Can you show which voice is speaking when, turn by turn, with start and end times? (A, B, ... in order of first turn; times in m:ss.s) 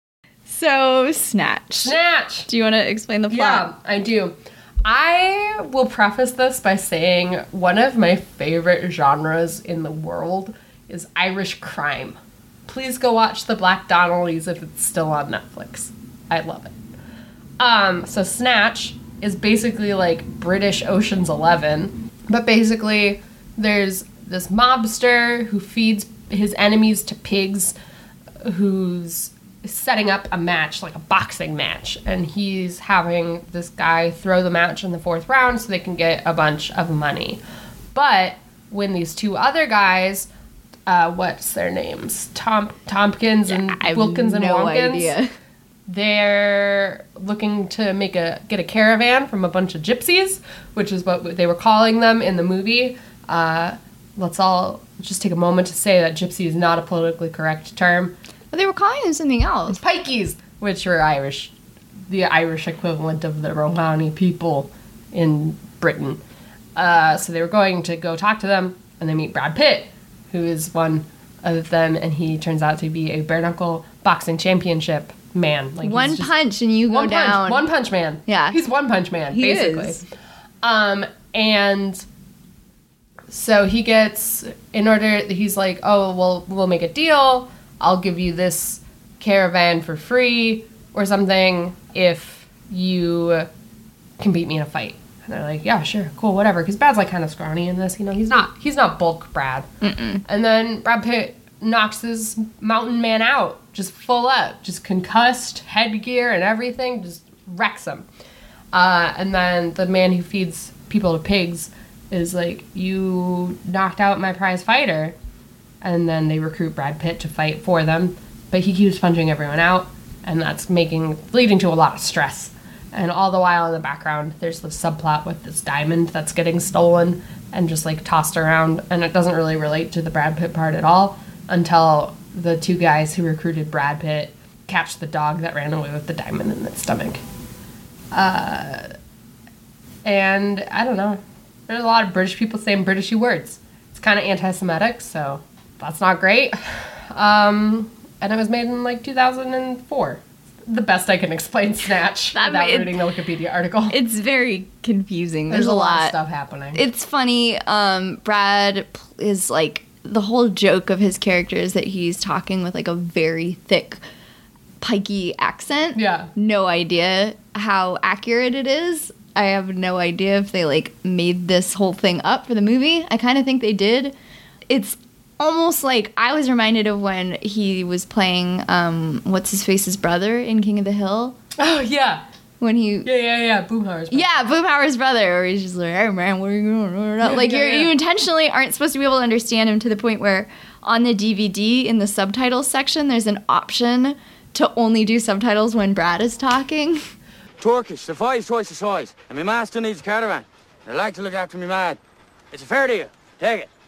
0:00.4-0:03.7 A
0:01.8-0:02.5 B
0:03.3-0:16.8 B
0:17.6-0:27.8 B
0:28.4-0:37.4 B
0:37.9-0:40.3 B
0:40.9-0:45.1 B
0:43.5-0:45.3 A
0:45.9-0:58.2 B
0:58.5-0:59.8 A
0:59.7-1:01.5 B
1:02.1-1:06.2 B
1:06.8-1:16.3 B
1:15.8-1:17.7 A
1:16.9-1:20.0 B
1:18.3-1:18.6 A
1:19.3-1:20.0 A
1:20.6-1:22.0 B
1:23.3-1:33.5 B
1:34.2-1:39.7 B
1:39.8-1:40.2 A
1:40.2-1:48.1 B
1:48.7-1:55.2 B
1:55.8-2:17.2 B
2:18.1-2:18.9 B
2:20.0-2:34.0 B
2:32.3-2:33.0 A
2:33.9-2:36.1 A
2:35.5-2:36.8 B
2:36.7-2:44.0 A
2:44.8-2:54.1 A
2:45.9-2:46.3 B
2:54.7-3:01.4 A
3:01.6-3:02.2 B
3:02.6-3:03.1 A
3:03.0-3:04.5 B
3:04.1-3:17.0 A
3:07.2-3:07.9 B
3:17.6-3:22.0 C
3:22.5-3:23.7 C